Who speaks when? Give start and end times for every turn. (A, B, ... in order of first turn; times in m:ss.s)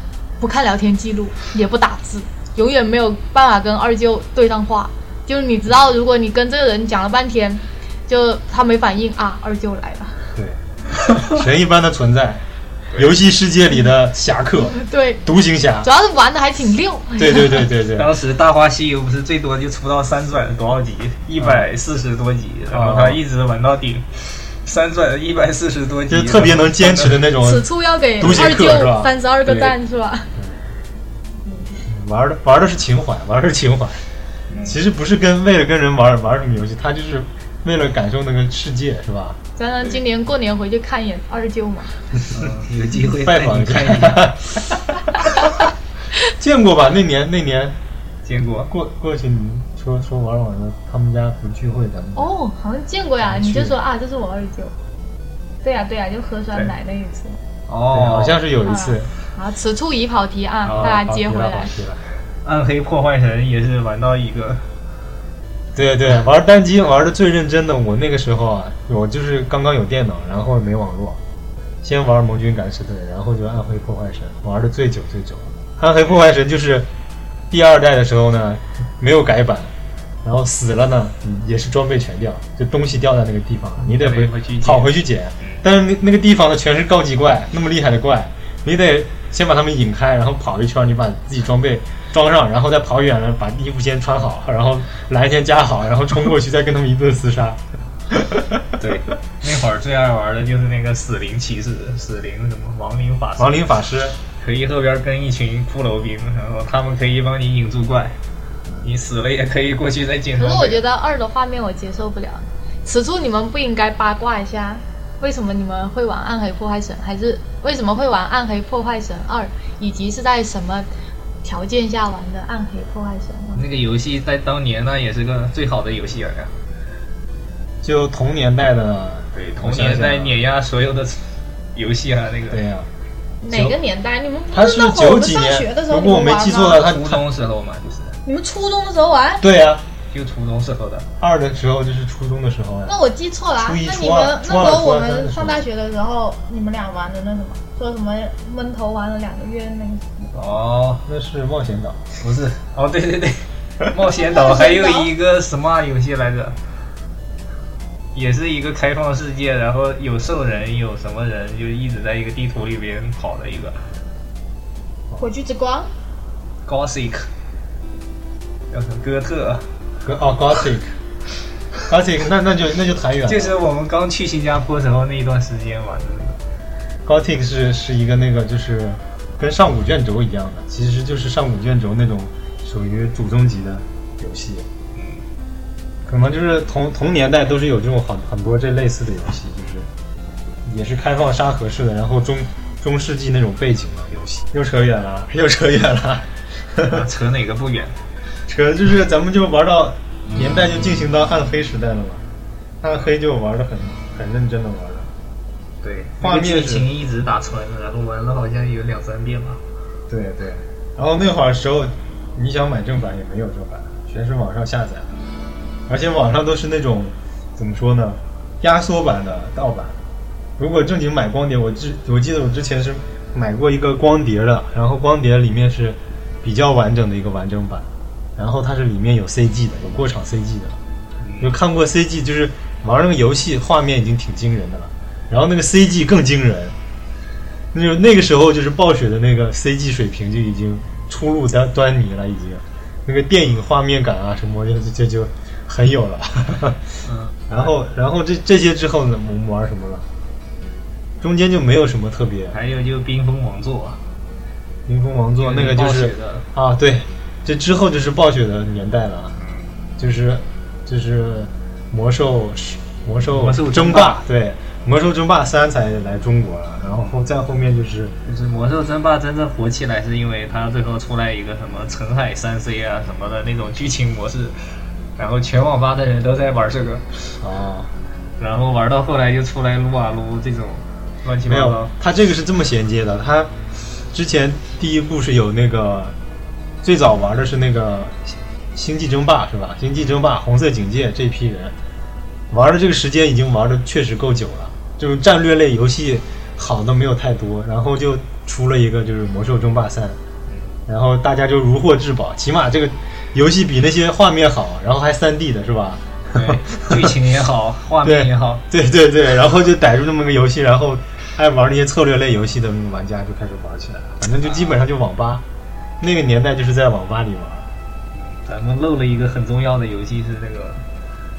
0:00.4-0:10.2 A
0:10.4-0:10.6 B
0:11.2-0:12.4 B
0:13.0-0:15.9 B
0:14.6-0:15.2 A
0:15.8-0:17.7 A
0:17.2-0:18.1 B
0:17.9-0:27.3 C
0:21.4-0:21.7 B
0:22.7-0:23.2 B
0:26.1-0:27.7 B
0:27.4-0:30.3 A
0:28.2-0:29.1 B
0:30.4-0:30.6 B
0:31.4-0:31.8 A
0:31.9-0:34.0 B
0:34.5-0:34.8 C
0:34.6-0:39.4 B
0:39.6-0:42.0 A
0:42.3-0:44.4 C
0:43.1-0:44.8 B
0:46.4-0:47.8 B
0:48.2-0:48.7 C
0:48.7-0:52.4 B
0:52.2-0:54.7 A
0:53.2-0:53.8 B
0:55.6-0:57.4 A
0:57.7-0:58.4 C
0:57.9-0:59.1 B
0:58.6-1:01.7 A
1:00.7-1:02.0 B
1:02.4-1:04.6 C
1:05.8-1:11.2 B
1:11.8-1:16.9 B
1:17.5-1:19.7 B
1:20.2-1:37.6 B
1:23.8-1:25.6 C
1:38.1-1:38.6 B
1:38.8-1:43.6 C
1:43.4-1:44.2 B
1:44.4-1:48.2 C
1:48.8-1:50.8 C
1:50.4-2:00.9 A
2:01.4-2:03.7 A
2:03.6-2:06.6 C
2:07.8-2:10.4 B
2:09.3-2:12.6 C
2:12.5-2:12.9 B
2:13.4-2:16.8 A
2:13.5-2:13.8 B
2:14.5-2:17.2 B
2:16.6-2:18.2 C
2:18.2-2:19.4 A
2:19.4-2:19.8 B
2:20.1-2:21.1 C
2:21.2-2:23.0 B
2:22.9-2:30.4 A
2:23.6-2:25.6 B
2:30.4-2:31.0 C
2:31.0-2:32.0 B
2:32.2-2:36.6 C
2:34.2-2:35.1 A
2:38.1-2:43.9 C
2:45.2-2:45.9 A
2:46.6-2:47.3 C
2:48.7-2:49.7 C
2:50.0-2:51.0 B
2:51.9-2:53.6 B
2:53.3-2:56.4 C
2:57.0-3:04.7 B
3:04.9-3:05.2 C
3:06.1-3:09.9 B
3:10.6-3:17.1 B
3:16.9-3:18.0 C
3:18.5-3:22.2 B
3:20.3-3:20.6 C
3:22.8-3:25.1 B
3:25.8-3:29.6 C
3:26.2-3:26.9 B
3:30.1-3:35.1 B
3:35.9-3:40.0 B
3:40.6-3:50.8 B
3:51.2-3:51.6 C
3:51.4-3:56.8 B
3:57.7-4:07.0 B
4:07.0-4:07.7 C
4:07.5-4:10.1 B
4:11.2-4:12.6 B
4:12.5-4:14.0 C
4:14.9-4:19.4 B
4:15.4-4:16.5 C
4:19.4-4:19.7 C
4:20.0-4:28.1 B
4:23.2-4:24.2 C
4:28.3-4:34.6 C
4:35.2-4:37.3 C
4:37.4-4:37.9 B
4:38.4-4:41.9 C
4:41.5-4:43.5 B
4:44.1-4:46.2 B
4:46.8-4:51.7 B
4:52.5-5:00.2 B
5:00.5-5:00.7 C
5:00.9-5:07.2 B
5:06.3-5:08.6 C
5:08.0-5:15.4 B
5:14.4-5:14.8 C
5:16.0-5:17.7 B
5:18.1-5:20.8 C